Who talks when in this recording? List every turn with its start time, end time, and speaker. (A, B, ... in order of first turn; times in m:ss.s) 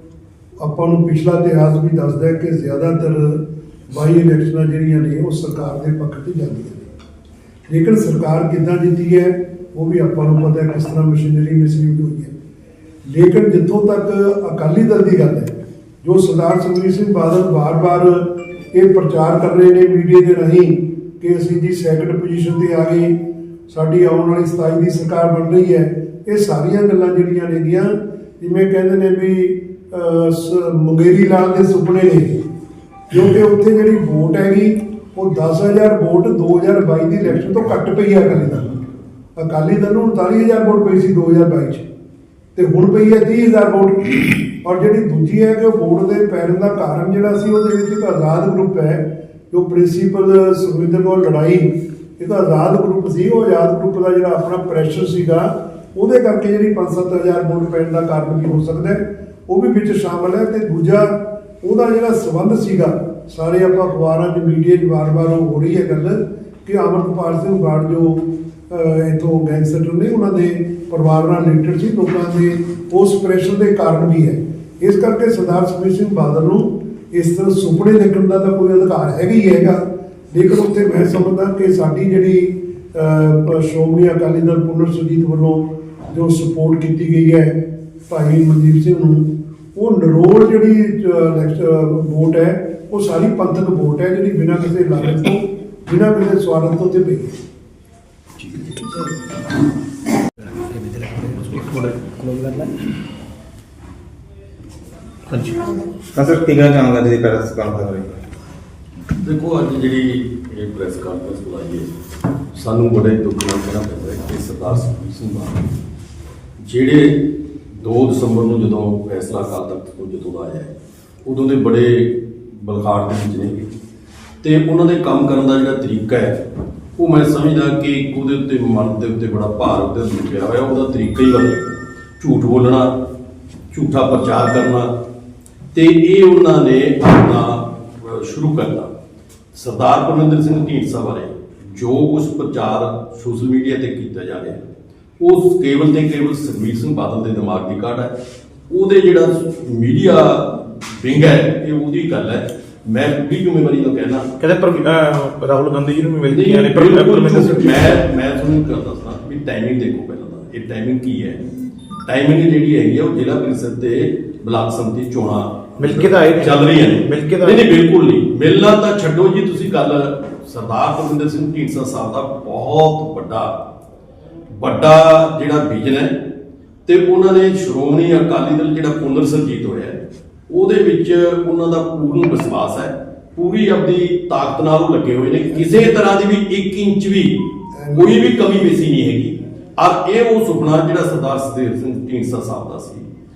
0:00.6-0:06.9 A
0:07.7-0:12.3 A
0:13.1-0:23.1 A
0:23.7-0:32.4 A
0:33.1-0:38.8 A
0:39.4-0:41.8 A
0:42.6-1:27.5 A
1:28.1-1:37.3 A
1:46.1-1:48.2 B
1:49.2-1:51.9 C
1:52.5-1:55.7 C
1:56.6-1:57.2 C
1:57.8-2:00.7 C
2:01.2-2:03.7 C
2:04.4-2:06.4 C
2:07.0-2:12.9 C
2:13.7-2:14.9 C
2:15.7-2:18.9 C
2:19.5-2:24.6 C
2:25.2-2:28.1 C
2:28.7-2:34.3 C
2:34.4-2:37.9 D
2:36.3-2:41.4 C
2:42.0-2:53.5 C
2:45.8-2:47.6 D
2:54.5-2:56.1 C
2:56.8-3:00.0 C
3:00.5-3:13.0 C
3:07.7-3:08.2 A